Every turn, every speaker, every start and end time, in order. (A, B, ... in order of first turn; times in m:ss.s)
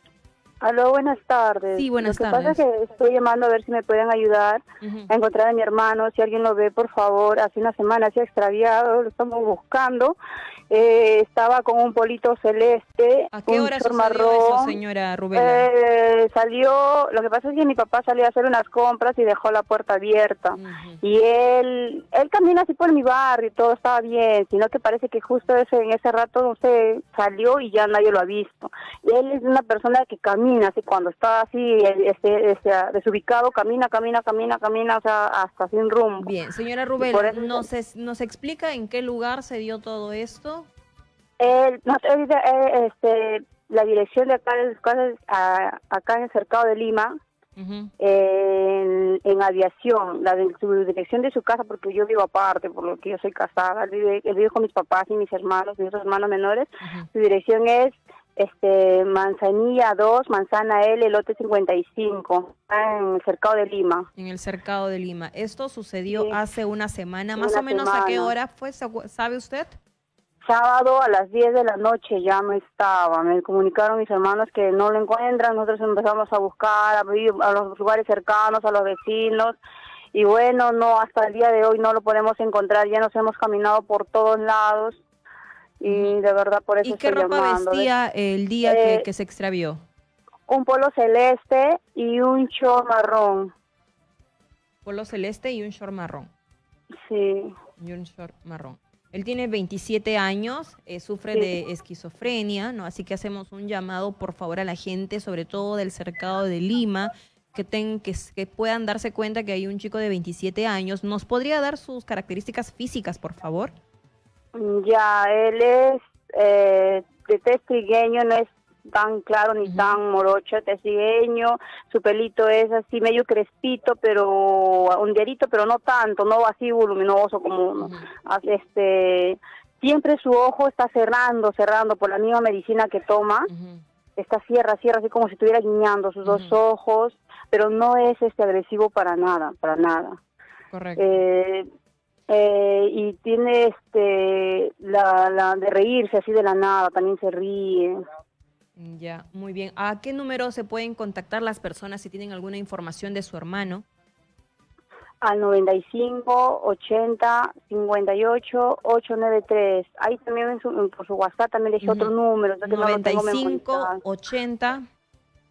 0:00.6-0:10.2 A
0:01.7-0:02.6 B
0:04.8-0:05.1 B
0:10.7-0:14.8 A
0:13.3-0:15.7 B
0:15.3-0:36.3 A
0:20.5-0:21.0 B
0:36.2-0:40.7 B
0:37.0-0:37.7 A
0:41.4-0:47.1 A
0:47.6-0:47.9 B
0:48.0-1:04.1 A
1:04.2-1:09.8 B
1:06.1-1:06.4 A
1:07.4-1:08.3 A
1:10.5-1:19.6 A
1:20.1-1:25.0 A
1:25.8-1:27.9 A
1:25.8-1:26.2 B
1:26.8-1:29.8 B
1:28.6-1:29.1 A
1:30.5-1:33.5 A
1:34.8-1:36.3 B
1:37.0-1:37.6 A
1:37.8-1:53.7 B
1:54.5-2:13.5 A
1:59.6-2:00.0 B
2:07.8-2:08.1 B
2:13.5-2:13.8 B
2:14.2-2:20.2 A
2:16.2-2:16.6 B
2:20.7-2:21.0 B
2:21.0-2:21.7 A
2:22.3-2:28.0 A
2:28.8-2:33.8 B
2:35.2-2:44.0 A
2:41.8-2:42.1 B
2:42.6-2:44.8 B